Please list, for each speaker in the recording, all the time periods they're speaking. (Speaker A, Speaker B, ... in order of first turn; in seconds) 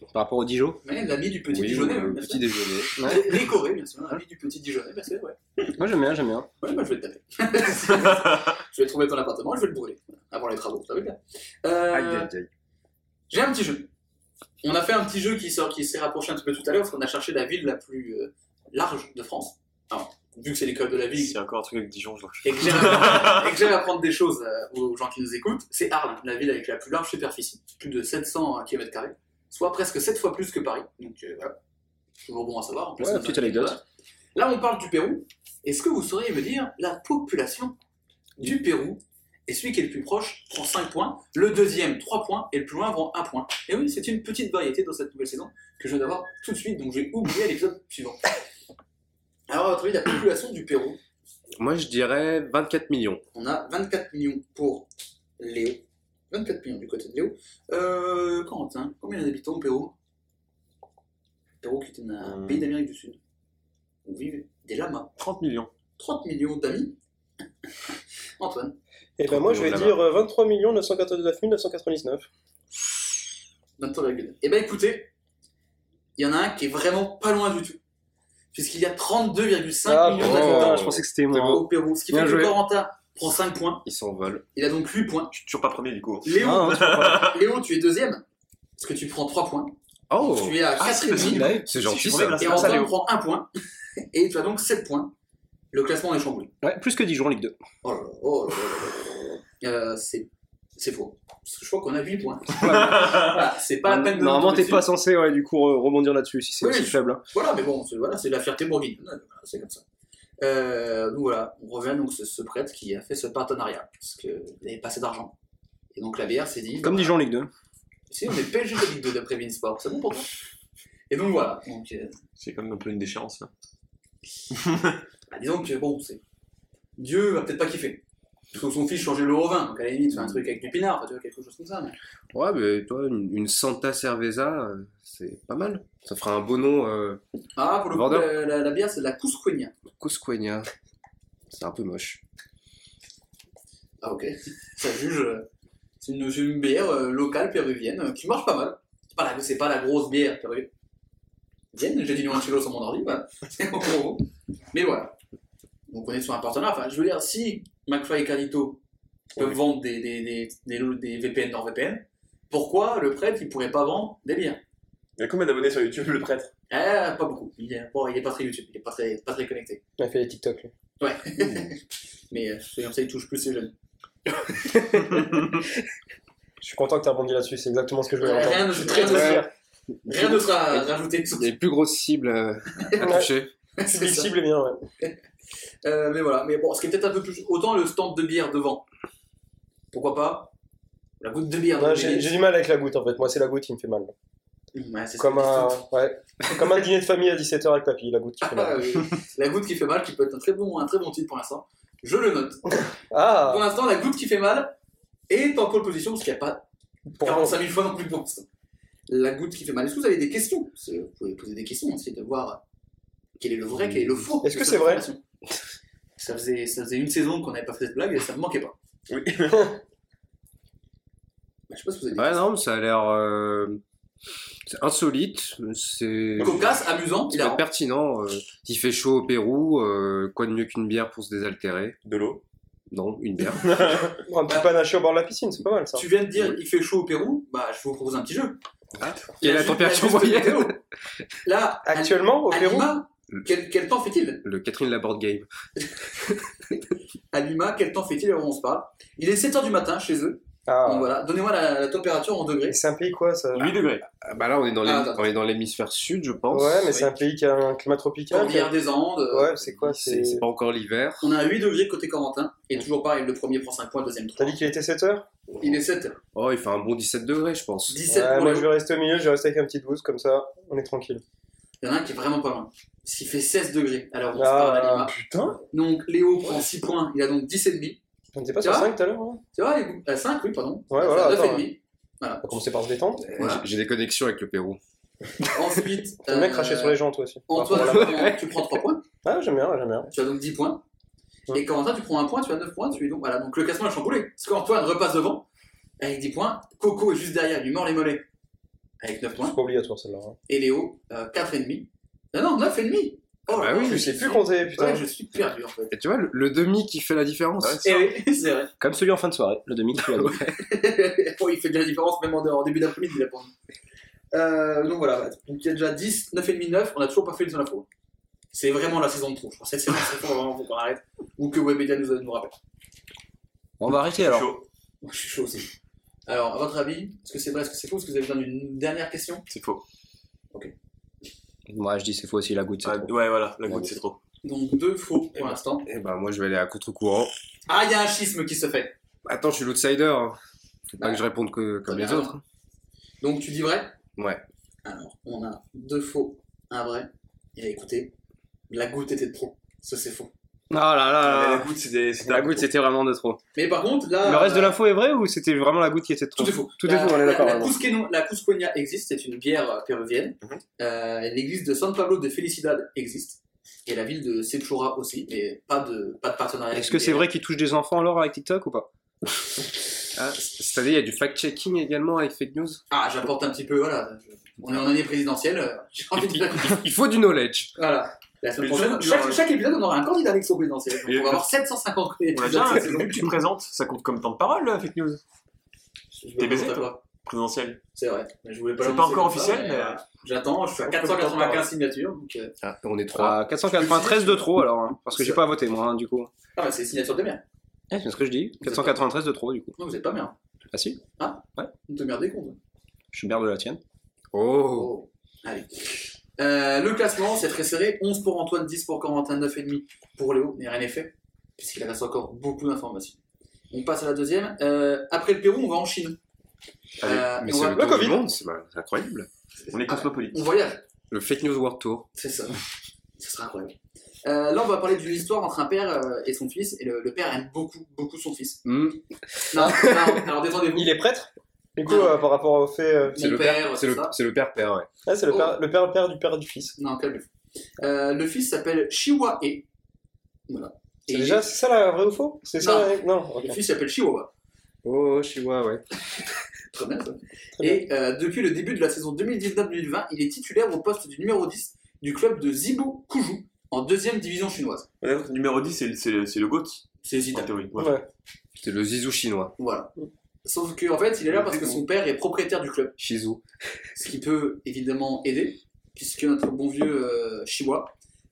Speaker A: 0.1-0.8, 5.8-6.5, 33.0-33.8, 80.8-81.6, 86.4-87.1, 91.1-91.7, 96.6-97.5, 103.8-107.2, 116.8-117.5, 308.8-310.7, 323.8-324.5, 331.7-333.1, 333.7-333.9, 350.7-351.6, 352.4-353.4, 354.3-357.7, 366.7-368.9, 393.1-396.3, 397.9-399.8, 400.7-401.0, 403.1-403.8
Speaker B: 0.8-5.7, 6.6-12.3, 13.3-13.9, 14.6-21.3, 22.4-31.6, 32.2-33.8, 34.3-37.7, 38.4-48.3, 49.5-51.0, 53.3-59.9, 61.6-63.2, 64.0-65.1, 66.0-67.0, 68.4-68.7, 73.8-75.1, 76.2-77.8, 78.5-83.8, 84.5-85.3, 86.2-88.2, 88.8-91.5, 92.4-93.5, 94.1-95.1, 95.7-96.5, 97.8-104.9, 106.6-109.8, 110.4-115.3, 115.9-117.2, 118.1-120.3, 121.1-122.1, 125.3-126.2, 127.0-128.0, 128.5-131.9, 137.6-139.7, 144.0-145.5, 146.0-150.7, 151.7-155.1, 155.9-158.8, 159.3-164.6, 166.7-169.8, 171.0-173.7, 178.2-179.5, 180.0-181.5, 182.8-183.1, 183.8-184.3, 185.8-188.8, 189.9-190.5, 191.2-192.4, 194.7-195.8, 198.4-202.8, 203.4-204.8, 205.3-206.7, 207.2-208.4, 209.1-212.6, 213.4-215.2, 216.2-218.7, 221.7-222.5, 226.4-227.6, 235.9-238.6, 239.4-240.8, 241.4-244.4, 247.3-252.8, 254.8-255.2, 258.3-259.6, 261.2-264.6, 265.6-266.2, 267.9-268.7, 271.8-275.1, 275.7-278.0, 278.6-279.0, 279.5-282.4, 283.3-283.6, 285.5-289.0, 290.1-290.8, 291.5-295.4, 296.0-298.2, 299.0-299.6, 300.5-305.9, 307.8-308.7, 310.6-313.5, 314.3-317.9, 318.5-322.5, 325.0-325.7, 326.3-329.4, 334.4-335.9, 337.7-338.9, 341.9-342.4, 343.2-343.9, 344.8-348.1, 348.7-350.3, 353.5-354.8, 356.4-367.3, 372.9-376.9, 377.8-383.3, 386.1-387.0, 387.9-392.5, 393.7-394.5, 395.1-395.4, 396.6-397.4, 398.6-399.0, 399.8-400.3, 401.2-402.6, 404.7-413.2, 413.7-416.2, 417.0-418.1, 419.9-420.8, 422.1-422.6, 423.2-428.6, 429.5-430.9, 431.8-432.2, 433.1-434.1, 435.3-435.6, 436.8-439.6, 440.5-441.4, 442.6-444.3, 446.7-454.9, 457.0-457.5, 459.6-459.9, 460.4-462.9, 463.9-467.9
Speaker C: 1.5-3.4, 11.9-12.5, 51.6-53.2, 69.3-70.0, 80.2-81.5, 83.8-84.4, 90.1-90.7, 91.5-92.7, 132.3-137.2, 137.9-138.3, 140.0-140.7, 141.5-142.2, 178.9-179.5, 180.1-183.5, 222.2-223.8, 224.7-232.0, 232.9-234.0, 239.0-240.8, 244.4-245.5, 254.2-257.0, 259.7-261.4, 266.3-268.0, 283.4-284.8, 303.5-304.1, 305.9-308.0, 335.4-337.3, 339.2-340.4, 340.9-342.4, 344.2-344.4, 370.1-372.8, 376.1-377.7, 392.6-393.4, 404.3-404.9, 417.0-419.3, 421.1-422.1, 428.6-429.0, 429.5-429.8, 433.1-434.9, 444.8-445.8, 458.6-459.5, 463.0-463.4
Speaker D: 21.2-23.5, 62.2-62.6, 65.2-65.7, 85.3-87.3, 90.8-92.9, 102.7-103.3, 122.4-123.5, 124.5-125.0, 165.2-166.5, 219.1-219.7, 232.0-232.4, 233.6-234.1, 253.5-254.0, 275.2-275.5, 307.6-307.9, 324.2-324.6, 329.5-329.8, 332.8-334.2, 351.2-352.7, 378.6-379.4, 382.3-385.2, 386.4-387.8, 388.8-390.0, 390.8-391.7, 419.7-420.4, 455.0-458.0, 461.3-461.8
Speaker E: 69.2-72.3, 79.8-81.6, 170.0-170.7, 176.6-179.5, 183.0-183.3, 183.9-184.8, 191.8-194.1, 195.2-198.8, 203.1-203.7, 207.1-207.6, 214.4-215.1, 234.2-236.0, 241.8-242.9, 250.7-251.2, 252.7-253.8, 256.5-258.7, 259.3-260.4, 264.4-265.3, 268.1-271.2, 274.4-275.5, 278.3-279.4, 280.9-281.7, 282.4-283.3, 286.2-288.3, 289.2-290.1, 299.4-300.4, 303.8-305.0, 356.8-357.2, 417.6-418.2, 430.7-433.3, 435.1-436.8, 441.1-443.6, 457.8-458.0